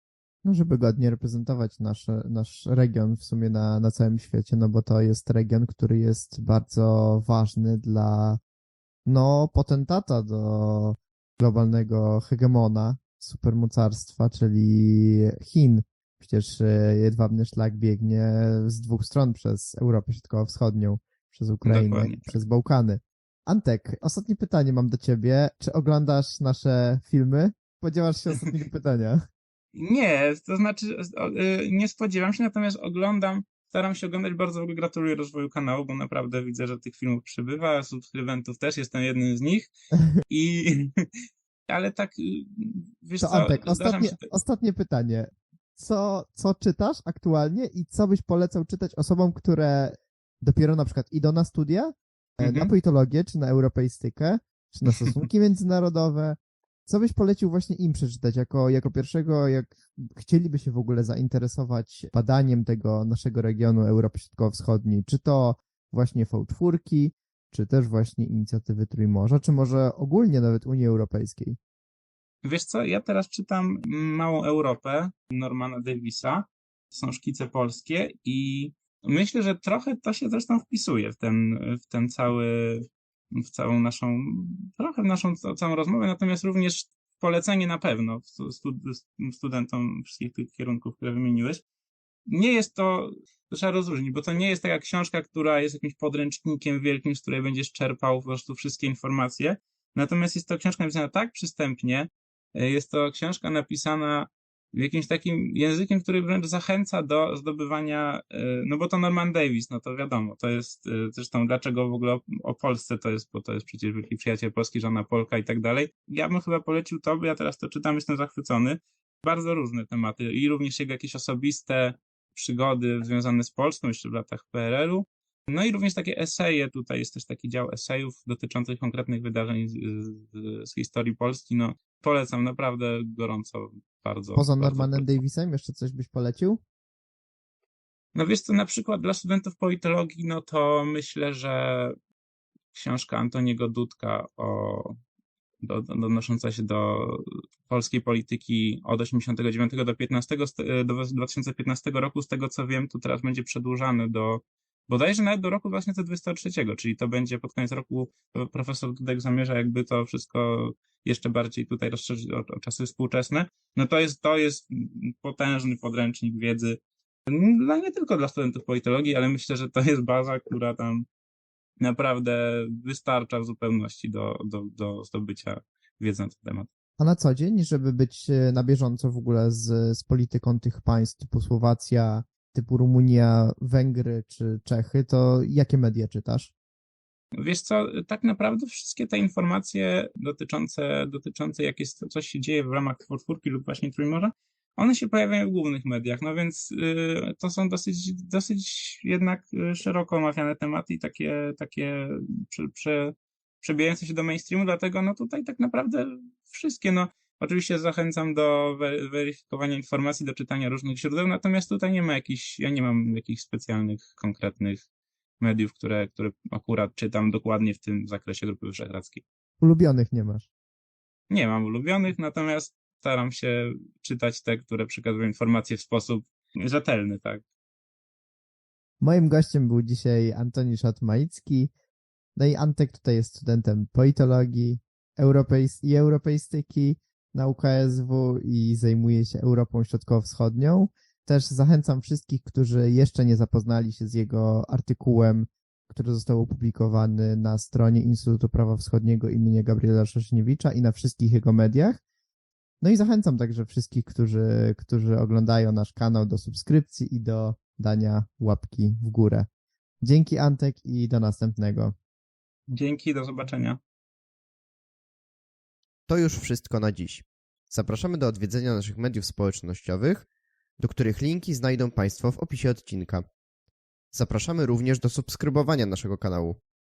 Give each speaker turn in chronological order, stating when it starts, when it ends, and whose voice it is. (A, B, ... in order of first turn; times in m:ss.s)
0:00.4-0:08.4 A
0:09.0-0:29.2 A
0:21.6-0:22.4 B
0:28.3-0:28.6 B
0:29.7-0:39.7 B
0:40.2-0:41.0 B
0:41.7-0:44.3 B
0:43.2-1:11.6 A
0:52.4-0:52.7 B
1:12.4-1:31.6 B
1:32.3-2:15.2 B
2:14.3-2:16.6 A
2:18.1-2:22.0 B
2:22.7-2:25.0 B
2:25.6-2:51.0 B
2:51.8-2:56.7 B
2:57.0-3:06.5 A
3:07.4-3:34.8 B
3:35.4-3:39.2 B
3:39.6-3:40.5 A
3:41.3-3:47.4 B
3:49.0-3:51.7 A
3:52.4-4:12.0 A
4:12.8-4:19.4 A
4:20.0-4:21.9 A
4:22.7-4:23.8 B
4:26.1-4:30.2 C
4:30.8-4:33.2 C
4:34.2-4:36.6 C